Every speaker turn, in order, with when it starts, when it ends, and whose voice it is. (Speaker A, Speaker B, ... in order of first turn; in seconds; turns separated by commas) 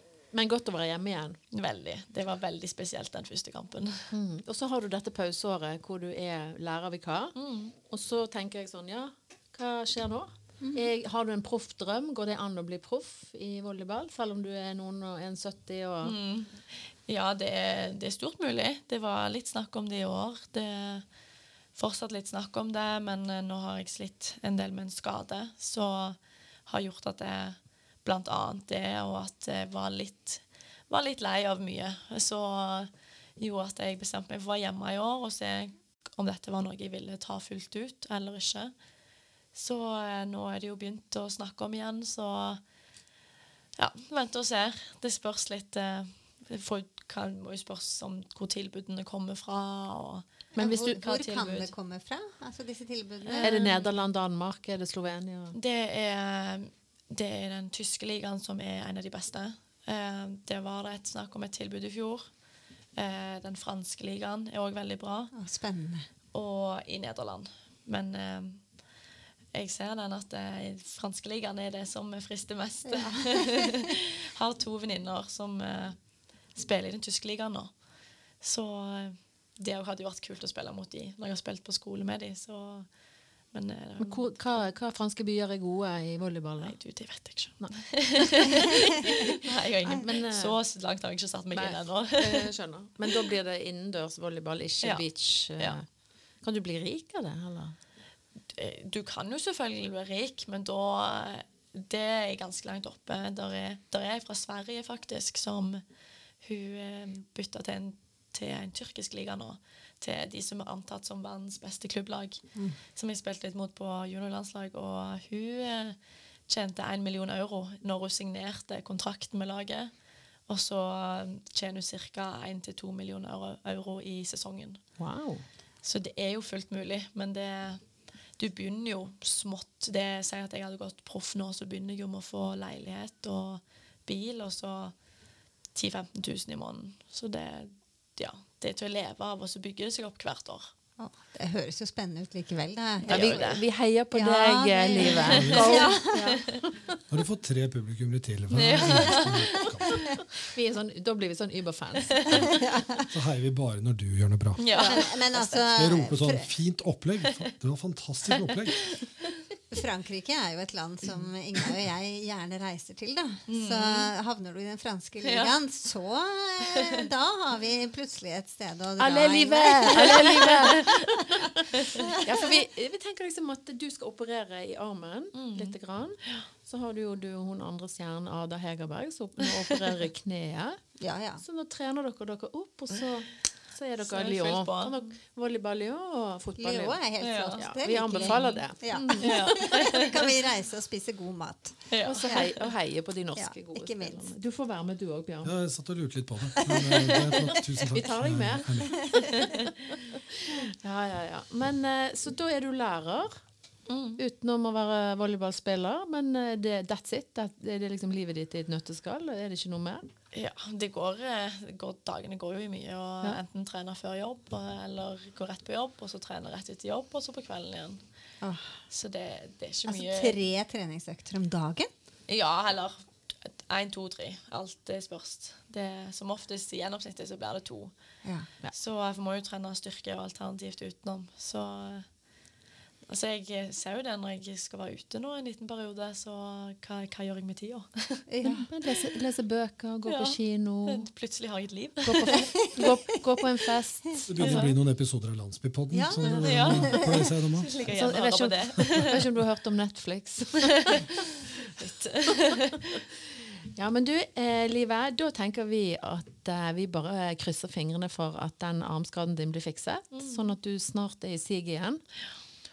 Speaker A: 0.3-1.4, Speaker B: 1.5-4.1, Speaker A: 4.1-16.1, Speaker B: 7.3-7.7, Speaker C: 10.6-10.9, Speaker B: 16.0-21.0, Speaker B: 21.7-38.7, Speaker B: 39.5-42.6, Speaker B: 43.8-51.7, Speaker C: 50.5-53.6, Speaker A: 50.6-50.8, Speaker B: 53.2-54.0, Speaker A: 53.4-55.5, Speaker B: 55.5-62.3, Speaker B: 63.0-65.3, Speaker C: 65.3-66.1, Speaker B: 66.3-68.6, Speaker B: 69.5-76.0, Speaker C: 72.9-73.7, Speaker B: 76.5-77.7, Speaker B: 78.4-82.9, Speaker B: 83.5-84.3, Speaker A: 84.0-86.8, Speaker B: 86.6-92.5, Speaker A: 87.6-88.7, Speaker A: 89.9-90.6, Speaker A: 91.5-95.8, Speaker A: 96.4-97.7, Speaker B: 98.5-105.8, Speaker B: 106.4-116.0, Speaker B: 116.5-119.9, Speaker B: 120.5-124.8, Speaker A: 125.0-125.4, Speaker B: 125.8-127.8, Speaker B: 128.4-134.9, Speaker B: 135.7-140.7, Speaker C: 141.0-143.5, Speaker A: 143.0-146.8, Speaker B: 143.1-143.6, Speaker C: 144.1-146.4, Speaker B: 145.0-145.9, Speaker D: 145.3-145.7, Speaker D: 147.1-150.2, Speaker B: 148.5-150.2, Speaker A: 150.4-152.5, Speaker B: 152.1-152.4, Speaker C: 152.3-153.1, Speaker D: 153.1-154.6, Speaker B: 154.6-155.6, Speaker C: 154.8-156.5, Speaker D: 155.7-159.0, Speaker B: 158.3-159.3, Speaker C: 159.7-171.3, Speaker B: 163.5-164.1, Speaker B: 165.2-165.5, Speaker A: 169.0-180.8, Speaker B: 169.9-171.1, Speaker B: 171.8-172.1, Speaker C: 171.9-172.4, Speaker B: 175.3-176.4, Speaker C: 181.0-181.4, Speaker A: 181.4-187.0, Speaker B: 184.0-185.1, Speaker C: 186.6-192.4, Speaker B: 187.2-187.6, Speaker A: 187.6-189.5, Speaker B: 188.1-190.3, Speaker B: 191.9-192.7, Speaker A: 192.0-195.5, Speaker C: 193.3-194.3, Speaker D: 195.4-199.3, Speaker C: 196.6-196.9, Speaker A: 197.9-203.4, Speaker B: 203.9-204.2, Speaker A: 204.2-210.1, Speaker B: 210.3-218.0, Speaker C: 218.4-218.7, Speaker B: 218.9-220.4, Speaker C: 219.9-221.9, Speaker B: 222.3-227.9, Speaker B: 228.7-232.1, Speaker B: 233.1-238.2, Speaker C: 238.3-238.7, Speaker A: 238.4-241.1, Speaker B: 240.1-242.5, Speaker A: 242.0-244.7, Speaker C: 242.3-242.9, Speaker D: 244.3-247.7, Speaker B: 244.4-244.7, Speaker C: 245.9-247.9, Speaker B: 246.4-249.2, Speaker A: 247.9-251.0, Speaker B: 250.8-251.2, Speaker B: 251.8-253.0, Speaker A: 253.7-262.0, Speaker B: 260.1-260.5